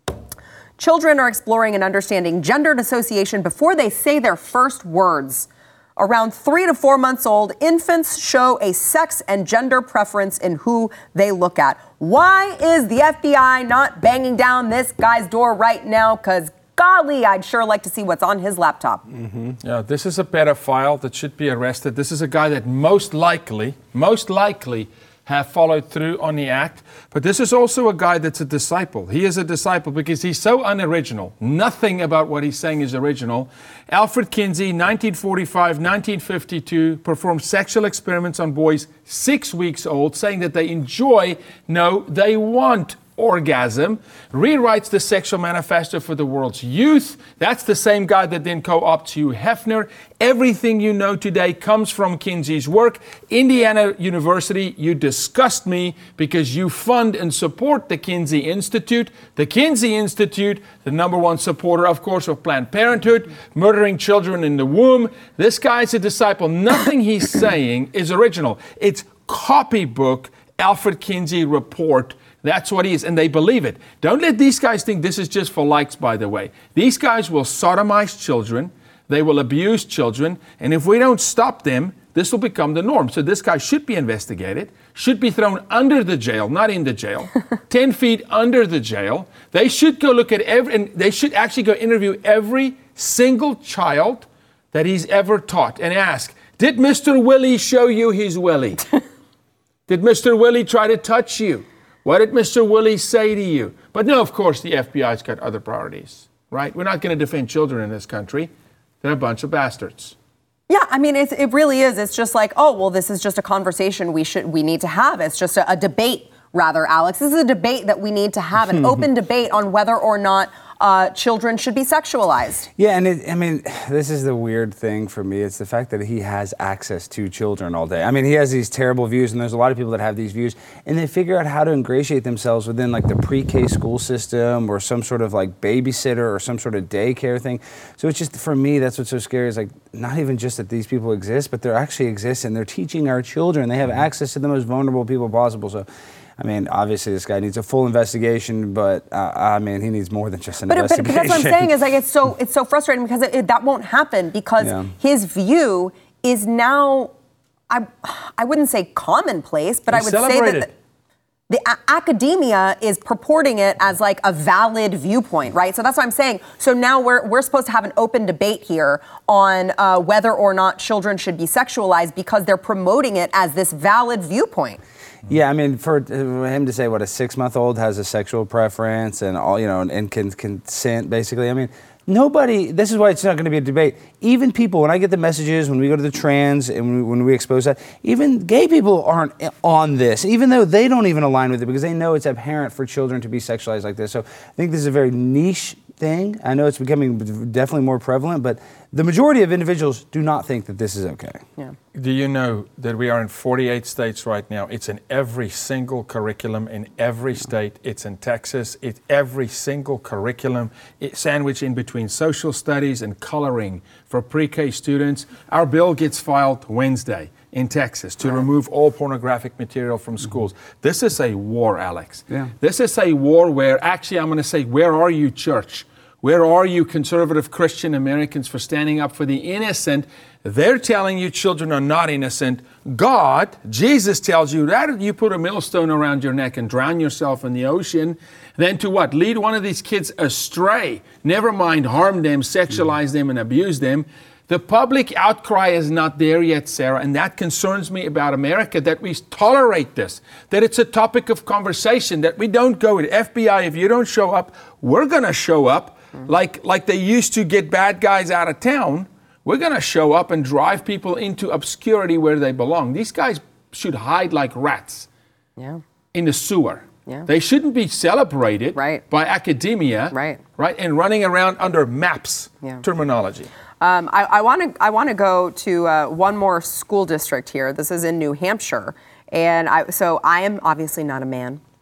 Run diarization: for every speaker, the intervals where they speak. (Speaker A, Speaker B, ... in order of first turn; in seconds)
Speaker A: 0.8-19.1, 110.7-122.7, 150.7-157.1, 157.7-160.7, 161.5-174.8, 265.6-265.8, 268.7-269.0, 270.1-270.4, 273.8-281.6
Speaker B: 19.1-19.6, 118.7-119.0, 122.8-145.9, 146.4-151.7, 154.6-154.9, 175.3-201.4
Speaker C: 19.6-98.9, 99.9-108.5, 109.0-110.1, 159.9-160.7, 201.9-265.1, 266.1-273.5